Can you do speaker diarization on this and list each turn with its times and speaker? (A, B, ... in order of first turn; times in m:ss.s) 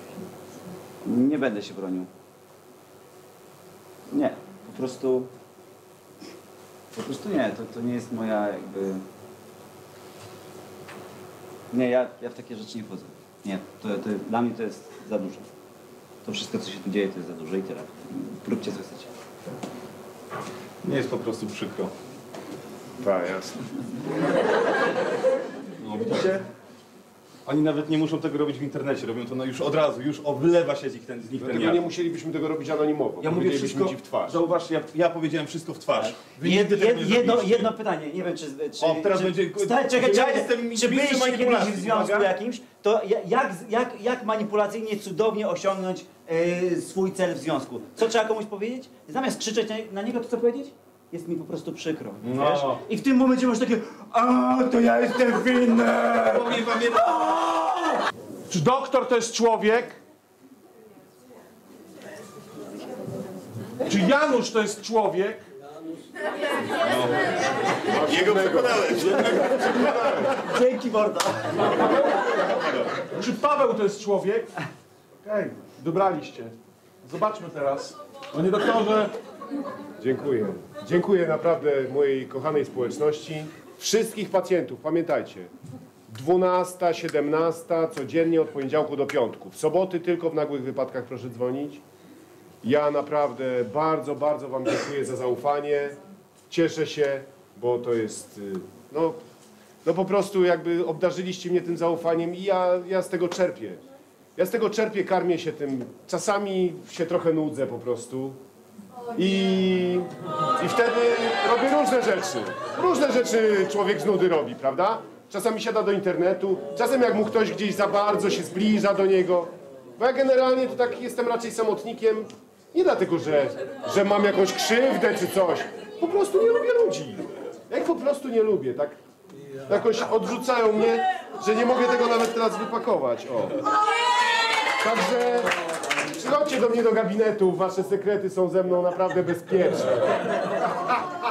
0:01.0-0:02.1 A
0:04.1-0:05.3 A
0:07.0-0:09.0 A
0:11.7-0:15.5 A
0:16.2-0:19.1 A
0:20.8-0:21.9 B
0:23.0-0:23.6 C
0:25.8-0:26.4 B
0:27.5-0:31.8 B
0:31.4-0:34.4 C
0:33.2-0:37.7 B
0:36.0-0:58.0 A
0:38.8-0:42.3 B
0:52.2-0:52.8 B
0:56.1-0:57.1 B
0:58.5-1:00.0 D
1:03.9-1:05.4 D
1:06.8-1:07.3 B
1:07.9-1:10.3 C
1:07.9-1:11.8 B
1:10.5-1:11.4 A
1:12.6-1:12.9 B
1:13.1-1:14.5 D
1:15.2-1:19.1 D
1:20.0-1:25.5 C
1:26.1-1:31.8 C
1:32.6-1:36.0 C
1:36.5-1:39.2 C
1:39.8-1:43.8 C
1:44.4-1:48.4 C
1:49.1-1:50.1 C
1:50.6-2:09.0 C
2:09.7-2:13.6 C
2:14.7-2:15.5 C
2:16.1-2:20.1 C